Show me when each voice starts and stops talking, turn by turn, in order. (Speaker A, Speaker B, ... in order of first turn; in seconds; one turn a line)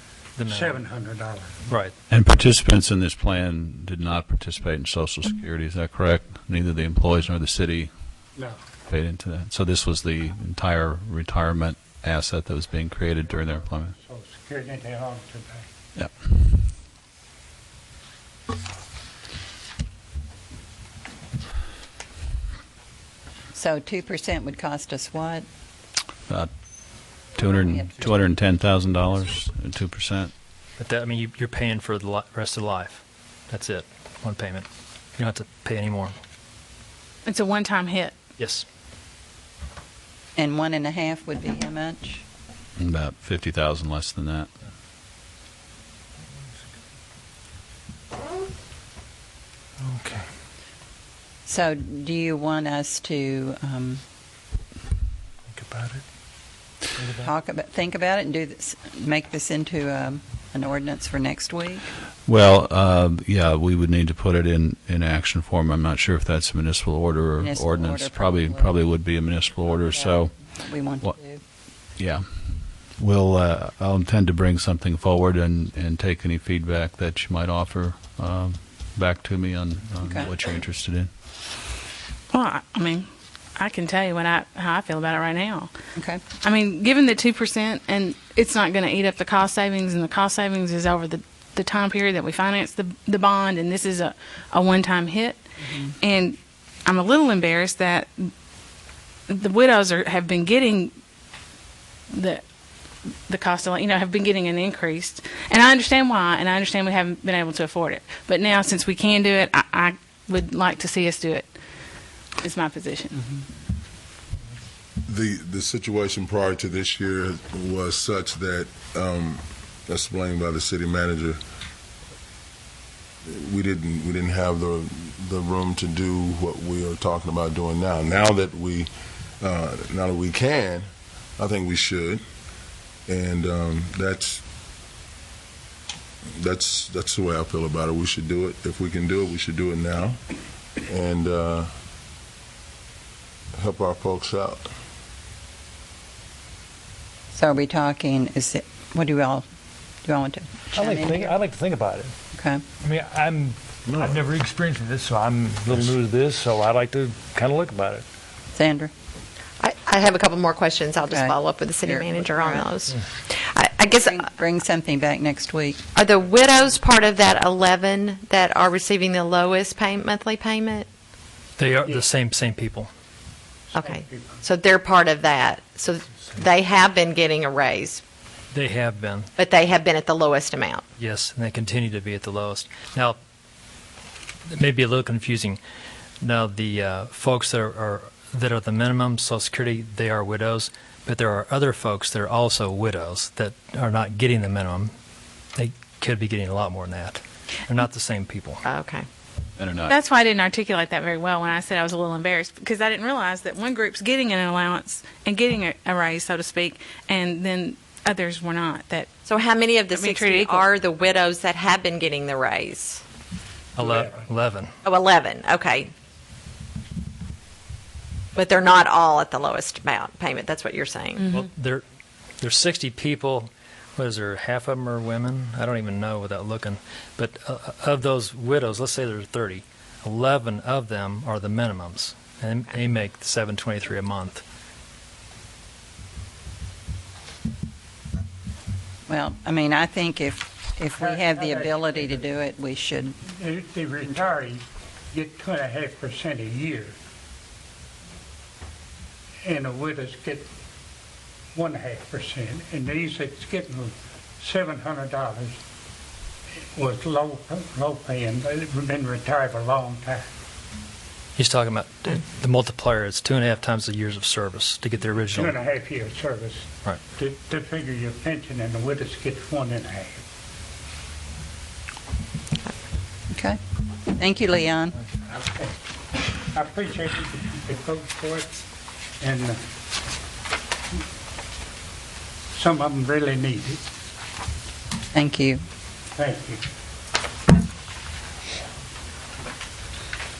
Speaker A: 0.4-0.8
Speaker B: 0.4-1.6
Speaker A: 1.7-1.9
Speaker C: 2.1-8.2
Speaker C: 8.9-13.9
Speaker B: 13.3-15.7
Speaker C: 15.9-16.6
Speaker D: 23.5-25.4
Speaker C: 27.2-30.3
Speaker A: 30.8-36.1
Speaker E: 37.2-38.1
Speaker A: 38.4-38.7
Speaker D: 40.4-42.2
Speaker C: 42.8-44.5
Speaker F: 49.9-50.2
Speaker D: 51.5-54.0
Speaker F: 55.5-56.0
Speaker D: 57.0-61.9
Speaker C: 62.3-71.2
Speaker D: 67.4-68.8
Speaker D: 69.9-71.4
Speaker C: 71.8-81.1
Speaker D: 80.0-80.3
Speaker E: 82.3-85.7
Speaker D: 86.0-86.2
Speaker E: 86.4-95.4
Speaker D: 95.6-95.9
Speaker E: 96.0-98.3
Speaker E: 99.3-101.0
Speaker E: 102.1-102.4
Speaker E: 103.3-111.5
Speaker E: 112.4-113.3
Speaker G: 115.1-121.4
Speaker G: 123.3-128.9
Speaker G: 129.4-130.9
Speaker G: 131.4-132.2
Speaker G: 133.1-134.4
Speaker G: 136.4-140.2
Speaker G: 140.9-141.7
Speaker G: 143.6-144.6
Speaker D: 147.3-149.4
Speaker D: 150.0-151.4
Speaker F: 150.8-152.1
Speaker D: 152.3-152.6
Speaker F: 152.8-158.0
Speaker G: 153.9-154.2
Speaker D: 158.5-158.9
Speaker H: 159.6-164.2
Speaker D: 161.0-162.7
Speaker D: 163.9-165.8
Speaker H: 165.9-170.9
Speaker A: 171.6-172.9
Speaker B: 173.7-174.4
Speaker H: 173.8-178.0
Speaker A: 178.5-179.3
Speaker H: 179.4-180.8
Speaker A: 181.0-183.2
Speaker A: 184.5-185.6
Speaker A: 186.2-194.9
Speaker A: 195.6-198.6
Speaker H: 198.6-199.1
Speaker C: 199.6-199.9
Speaker E: 199.9-209.1
Speaker H: 209.2-213.0
Speaker E: 209.9-210.7
Speaker A: 213.8-214.8
Speaker B: 213.8-214.3
Speaker H: 214.8-215.9
Speaker H: 218.3-221.3
Speaker A: 221.2-221.8
Speaker A: 222.4-234.4
Speaker D: 239.1-243.2
Speaker B: 241.0-242.2
Speaker B: 243.2-246.9
Speaker B: 249.4-250.5
Speaker B: 251.5-255.6
Speaker B: 256.7-260.2
Speaker A: 261.4-265.6
Speaker B: 265.3-270.2
Speaker D: 273.3-275.0
Speaker B: 275.2-275.8
Speaker B: 276.5-278.6
Speaker B: 279.2-279.6
Speaker B: 282.5-283.8
Speaker D: 285.1-285.6
Speaker B: 286.1-286.6